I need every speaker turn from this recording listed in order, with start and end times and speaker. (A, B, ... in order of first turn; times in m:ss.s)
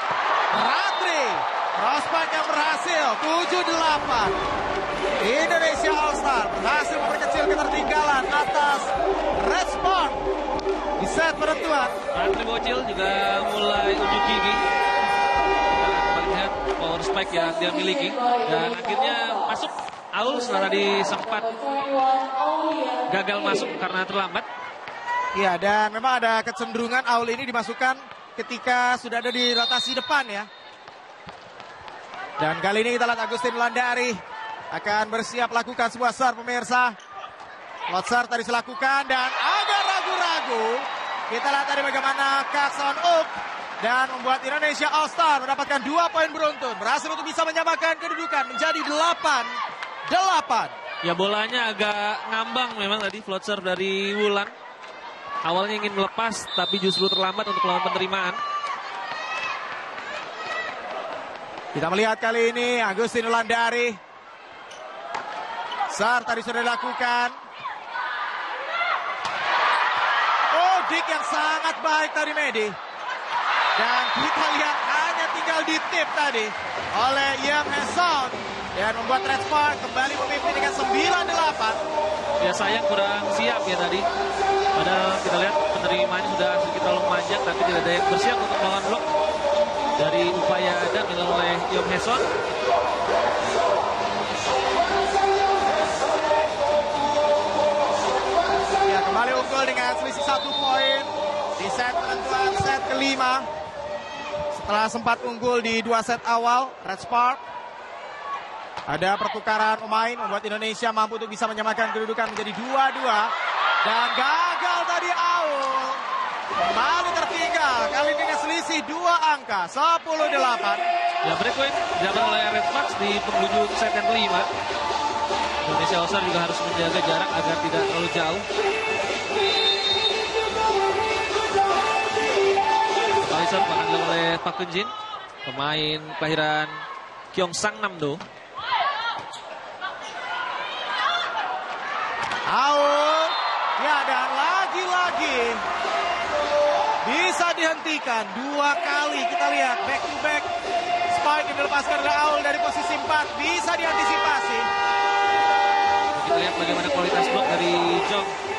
0:00.5-0:04.4 A
0:05.2-0:10.3 A
0:11.0-0:12.0 A
0:12.1-0:14.6 B
0:15.7-0:21.6 B
0:23.1-0:24.5 B
0:25.3-0:30.5 A
0:32.4-0:34.2 A
0:34.7-0:37.0 A
0:37.9-0:50.8 A
0:51.0-0:54.5 B
0:55.4-0:58.4 B
1:01.8-1:04.0 A
1:05.9-1:07.4 A
1:10.5-1:12.8 A
1:13.8-1:21.8 A
1:22.4-1:24.1 B
1:24.8-1:29.1 B
1:30.0-1:32.3 B
1:38.9-1:43.5 A
1:44.5-1:47.4 A
1:48.9-1:53.3 A
1:53.8-1:56.0 A
1:56.6-2:00.9 A
2:01.2-2:04.5 B
2:05.6-2:08.5 B
2:13.2-2:14.9 B
2:15.4-2:18.2 B
2:22.5-2:25.6 A
2:27.0-2:30.5 A
2:31.1-2:34.7 A
2:36.2-2:38.4 B